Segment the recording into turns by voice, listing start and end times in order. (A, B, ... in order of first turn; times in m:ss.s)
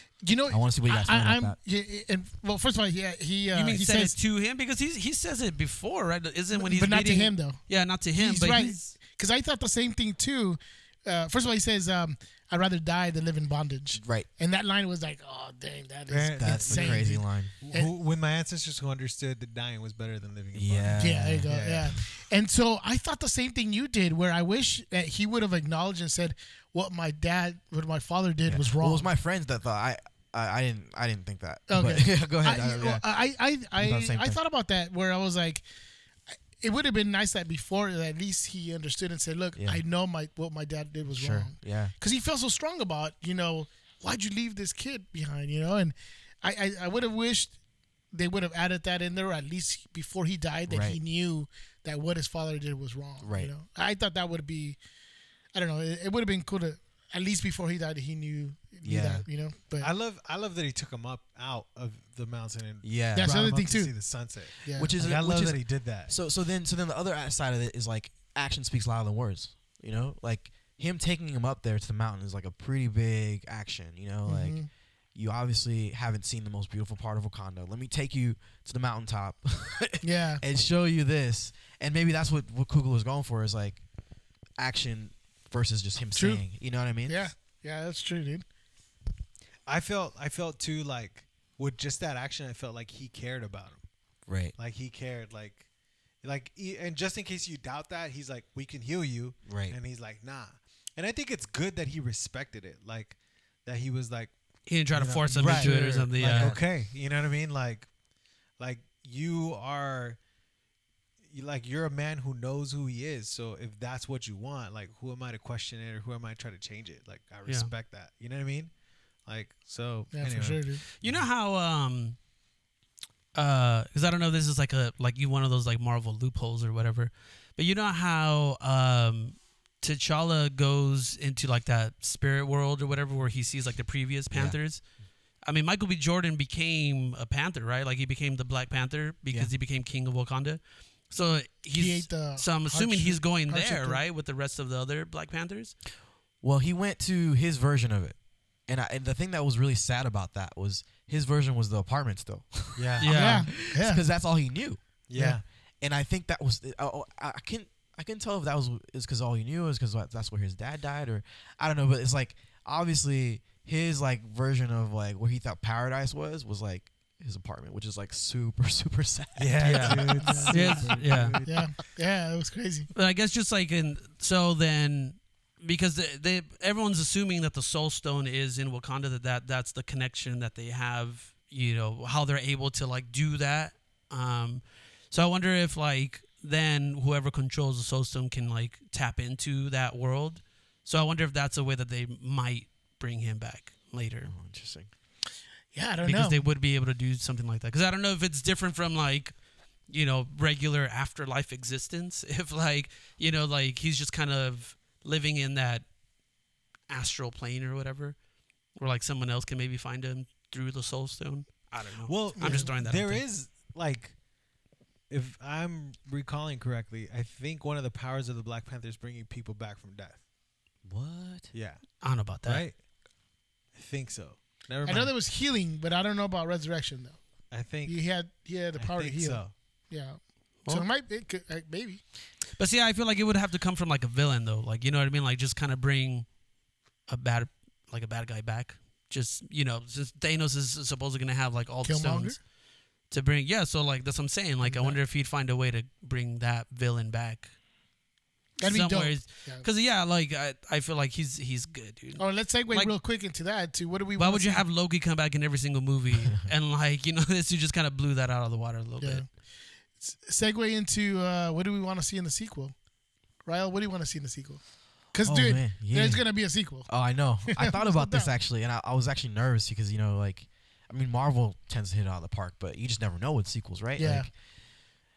0:00.2-0:04.2 A
0:00.5-0:01.6 B
0:03.5-0:08.9 C
0:06.5-0:07.6 A
0:08.2-0:17.9 A
0:14.0-0:14.3 B
0:16.1-0:22.0 D
0:16.4-0:17.5 B
0:20.5-0:21.5 B
0:21.0-0:29.1 A
0:28.5-0:33.0 B
0:31.7-0:35.6 A
0:33.8-0:34.4 B
0:36.6-0:47.6 A
0:39.6-0:39.8 B
0:41.1-0:41.9 B
0:48.1-0:54.8 A
0:50.7-0:51.0 B
0:53.2-0:53.5 B
0:55.5-0:59.9 A
0:58.8-0:59.3 B
0:59.8-1:06.1 D
1:02.8-1:03.4 B
1:03.2-1:04.0 A
1:04.6-1:05.0 A
1:04.7-1:14.6 B
1:14.3-1:14.7 A
1:15.2-1:23.8 B
1:20.0-1:20.4 A
1:24.6-1:27.3 B
1:26.2-1:26.4 A
1:27.1-1:28.4 A
1:29.7-1:33.8 D
1:34.3-1:34.6 B
1:34.6-1:35.7 D
1:36.2-1:44.3 D
1:39.5-1:39.8 B
1:44.7-1:46.6 C
1:44.9-1:47.9 D
1:45.4-1:46.6 B
1:48.6-1:50.2 D
1:51.3-1:58.7 D
1:59.3-2:01.3 D
2:00.1-2:00.8 A
2:01.0-2:02.2 C
2:03.4-2:14.8 C
2:14.3-2:14.6 B
2:15.4-2:25.8 C
2:21.7-2:24.0 A
2:26.4-2:28.2 B
2:28.7-2:34.8 B
2:32.8-2:33.1 D
2:33.0-2:33.5 C
2:33.1-2:34.0 A
2:35.1-2:35.4 D
2:35.8-2:51.3 B
2:49.4-2:51.7 D
2:49.6-2:51.4 C
2:50.2-2:50.8 A
2:51.4-2:52.9 A
2:53.0-3:14.3 C
3:14.2-3:14.9 B
3:15.7-3:16.4 A
3:16.0-3:19.3 C
3:19.9-3:25.9 C
3:26.9-3:28.2 C
3:28.8-3:33.2 C
3:32.1-3:34.2 D
3:32.4-3:32.7 A
3:35.1-3:40.2 D
3:40.8-3:41.5 B
3:41.5-3:41.8 D
3:42.0-3:42.6 C
3:42.4-3:42.8 D
3:43.8-3:45.1 D
3:44.8-3:47.2 A
3:47.5-3:48.0 D
3:47.9-3:52.0 A
3:48.8-3:49.5 D
3:52.6-3:56.3 C
3:57.1-4:02.4 C
4:01.8-4:02.4 A
4:03.1-4:07.5 C
4:04.6-4:05.0 A
4:08.6-4:09.6 A
4:08.6-4:12.9 C
4:12.2-4:14.6 A
4:14.2-4:19.2 C
4:19.0-4:19.3 A
4:20.0-4:22.8 A
4:23.4-4:26.9 A
4:25.2-4:26.2 B
4:26.9-4:34.3 B
4:27.5-4:28.3 A
4:34.0-4:34.3 A